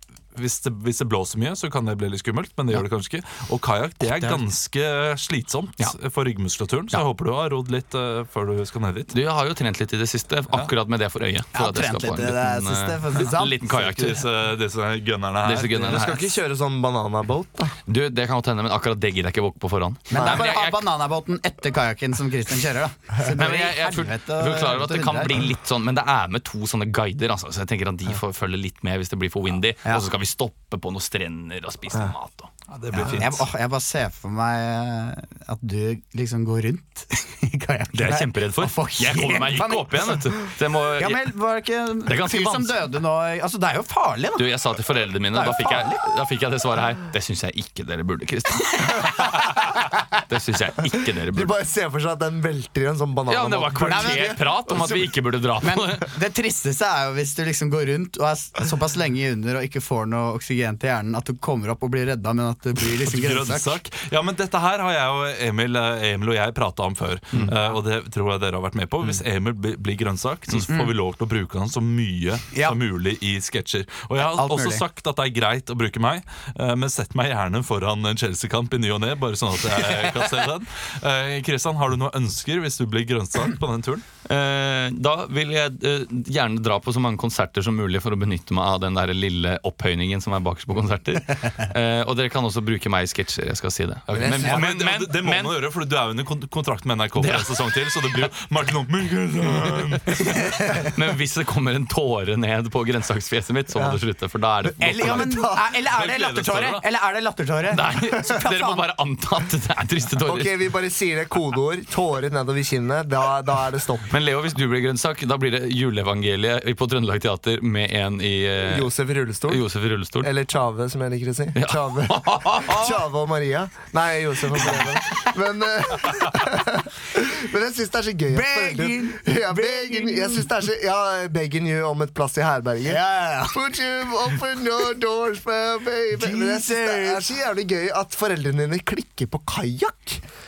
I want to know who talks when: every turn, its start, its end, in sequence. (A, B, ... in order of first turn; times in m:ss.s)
0:00.4-0:09.2 A
0:04.0-0:04.5 B
0:09.1-0:14.2 C
0:11.5-0:13.6 B
0:13.6-0:16.0 A
0:15.4-0:16.4 C
0:15.7-0:17.8 D
0:17.9-0:20.9 C
0:20.1-0:25.4 B
0:20.1-0:20.5 D
0:23.4-0:33.2 C
0:29.8-0:30.1 B
0:32.7-0:33.4 A
0:33.0-0:40.5 B
0:37.9-0:41.3 C
0:41.0-0:44.5 B
0:42.1-0:42.8 C
0:44.4-0:51.5 C
0:45.3-0:46.0 B
0:51.2-0:55.1 D
0:53.3-0:56.1 C
0:53.8-0:54.9 B
0:55.6-1:03.8 B
1:02.9-1:24.0 A
1:14.2-1:14.8 B
1:24.3-1:35.6 C
1:34.1-1:34.6 D
1:34.2-1:40.4 A
1:37.2-1:38.3 C
1:40.9-1:45.4 C
1:43.7-1:44.0 D
1:44.6-1:45.6 D
1:44.8-1:48.8 B
1:45.9-1:46.8 A
1:47.7-1:50.5 C
1:50.2-1:54.1 D
1:54.1-1:58.9 C
1:58.6-1:59.7 D
1:59.5-2:00.3 C
2:00.2-2:20.2 D
2:01.6-2:02.9 C
2:08.3-2:10.5 B
2:12.9-2:13.7 B
2:16.1-2:17.3 B